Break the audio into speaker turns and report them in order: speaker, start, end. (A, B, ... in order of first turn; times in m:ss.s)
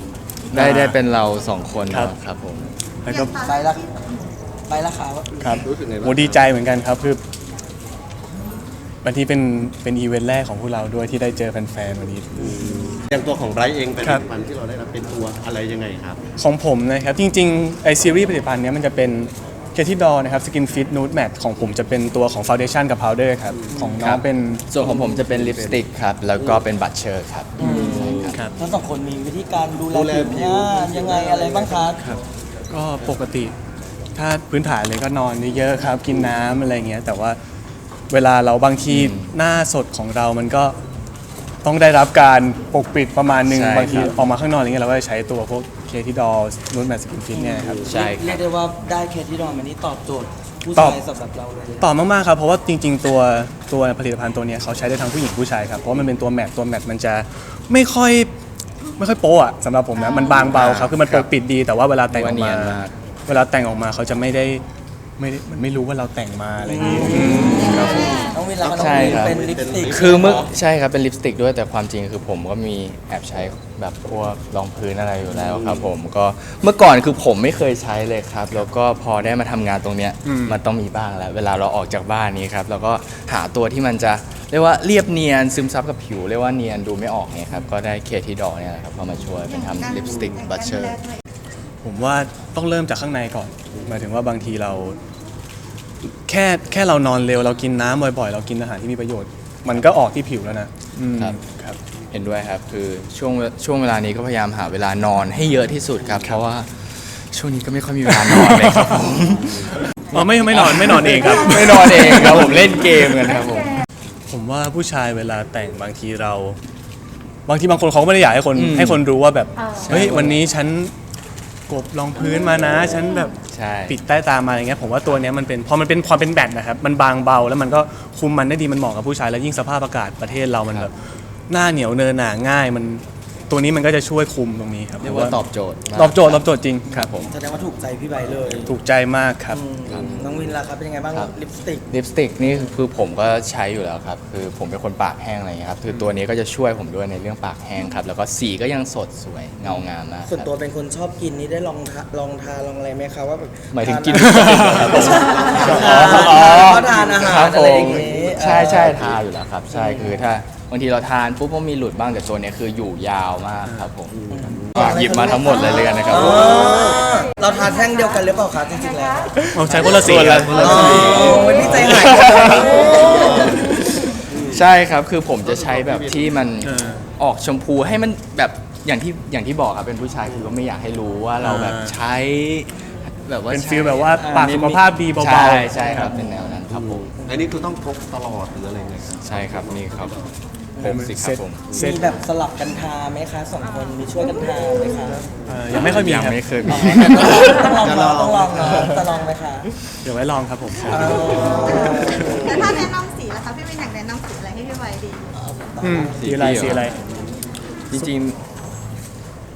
0:00.5-0:02.7 A
0:00.5-0:01.0 B
0:03.0-0:03.3 B
0:03.1-0:04.0 C
0:03.4-0:04.0 D
0:04.7-0:05.6 D
0:05.4-0:07.2 B
0:05.6-0:06.4 E
0:09.0-0:12.9 B
0:12.4-0:16.2 E
0:16.4-0:24.7 B
0:24.0-0:28.5 A
0:24.8-0:25.8 E
0:27.6-0:32.0 D
0:27.6-0:28.6 B
0:29.9-0:31.9 E
0:32.7-0:33.5 B
0:34.2-0:37.4 B
0:38.1-0:40.8 B
0:38.9-0:39.3 A
0:41.6-0:47.8 B
0:43.5-0:44.1 A
0:47.3-0:51.9 D
0:47.8-0:48.4 A
0:51.8-0:58.3 B
0:59.0-1:04.6 B
1:00.4-1:01.3 A
1:02.1-1:02.9 A
1:05.2-1:08.3 B
1:06.6-1:10.5 D
1:07.4-1:08.4 C
1:08.6-1:10.4 E
1:08.8-1:31.0 A
1:15.3-1:15.9 E
1:20.2-1:20.6 B
1:31.8-1:35.0 B
1:36.1-1:41.8 B
1:42.1-1:53.8 A
1:48.1-1:53.3 B
1:54.3-1:56.6 B
1:57.5-2:00.9 B
1:58.6-1:59.0 A
1:59.7-2:00.4 A
2:01.7-2:03.4 B
2:03.5-2:04.0 A
2:03.9-2:10.9 B
2:11.5-2:15.4 B
2:15.0-2:17.3 A
2:15.9-2:16.9 B
2:16.9-2:18.7 D
2:18.7-2:19.6 B
2:19.5-2:21.9 D
2:19.9-2:20.5 A
2:21.9-2:30.5 A
2:22.4-2:22.7 D
2:30.2-2:39.1 D
2:33.7-2:44.2 A
2:34.4-2:36.6 B
2:39.7-2:40.2 D
2:44.3-2:53.5 D
2:44.7-2:46.8 A
2:49.5-2:51.1 B
2:49.6-2:51.2 A
2:50.0-2:51.8 E
2:51.8-2:52.8 B
2:52.0-3:07.1 A
2:52.8-2:53.6 E
2:54.3-2:54.6 E
2:55.4-2:56.4 E
2:56.6-2:57.1 B
3:00.2-3:00.5 E
3:01.4-3:02.0 B
3:03.5-3:06.1 B
3:04.2-3:04.6 D
3:05.8-3:06.5 D
3:07.2-3:07.5 D
3:07.2-3:10.3 E
3:09.2-3:10.3 A
3:10.8-3:11.1 D
3:10.8-3:11.7 A
3:10.8-3:12.1 B
3:11.7-3:15.2 D
3:15.5-3:17.8 B
3:15.7-3:17.5 A
3:16.6-3:19.7 D
3:17.6-3:18.8 E
3:20.0-3:21.6 B
3:20.8-3:22.8 D
3:21.7-3:25.2 C
3:25.3-3:26.3 D
3:25.8-3:27.0 B
3:26.2-3:26.9 A
3:27.9-3:28.4 A